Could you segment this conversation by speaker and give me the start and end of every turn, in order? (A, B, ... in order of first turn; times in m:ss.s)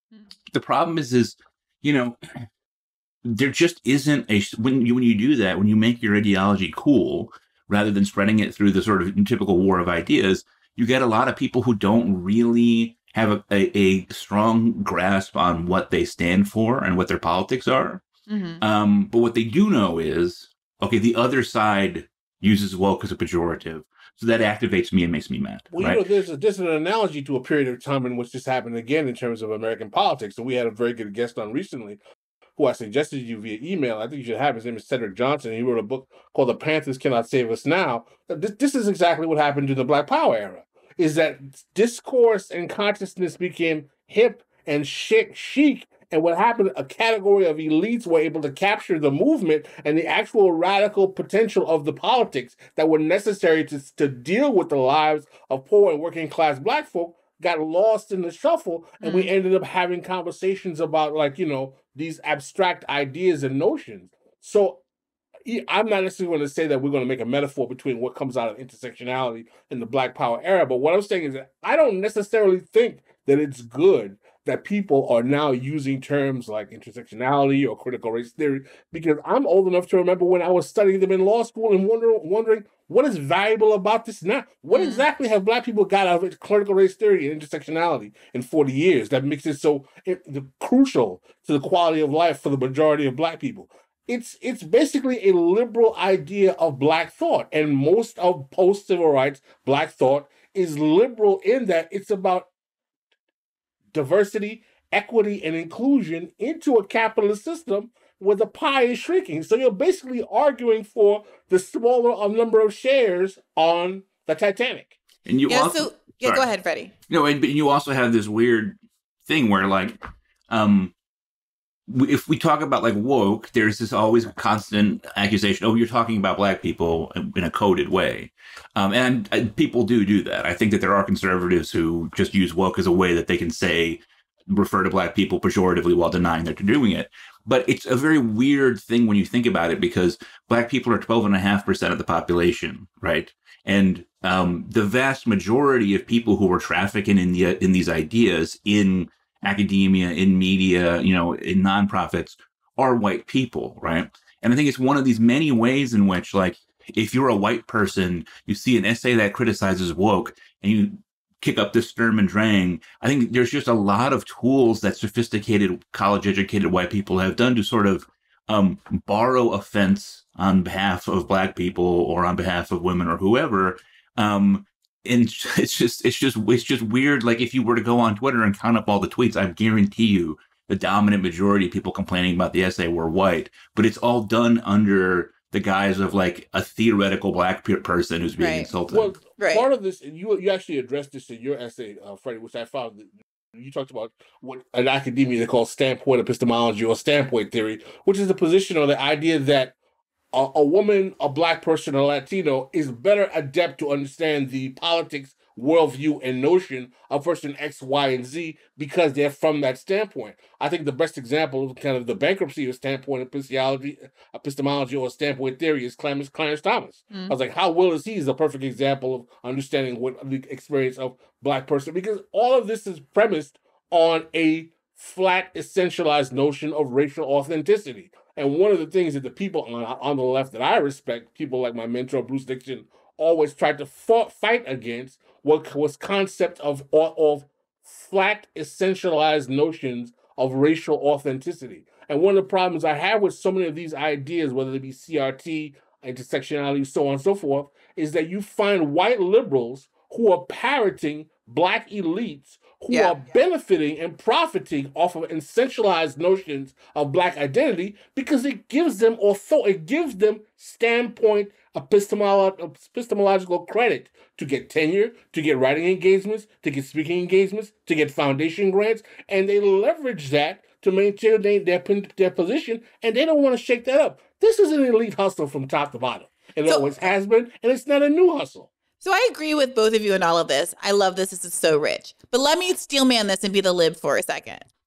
0:00.5-0:02.2 A
0:03.2-0:18.0 A
0:18.3-0:18.6 B
0:18.6-0:26.0 A
0:25.7-0:32.0 C
0:32.6-1:04.8 C
0:59.0-0:59.3 B
1:05.5-1:42.5 C
1:24.7-1:25.1 B
1:43.9-1:55.0 C
1:55.3-1:56.5 A
1:55.5-1:56.9 B
1:57.1-2:00.0 A
2:00.5-2:00.9 A
2:01.9-3:09.2 A
3:08.4-3:08.7 B
3:08.9-3:19.8 C
3:09.4-3:09.7 B
3:20.3-4:38.7 C
4:12.9-4:13.2 B
4:39.0-4:44.6 B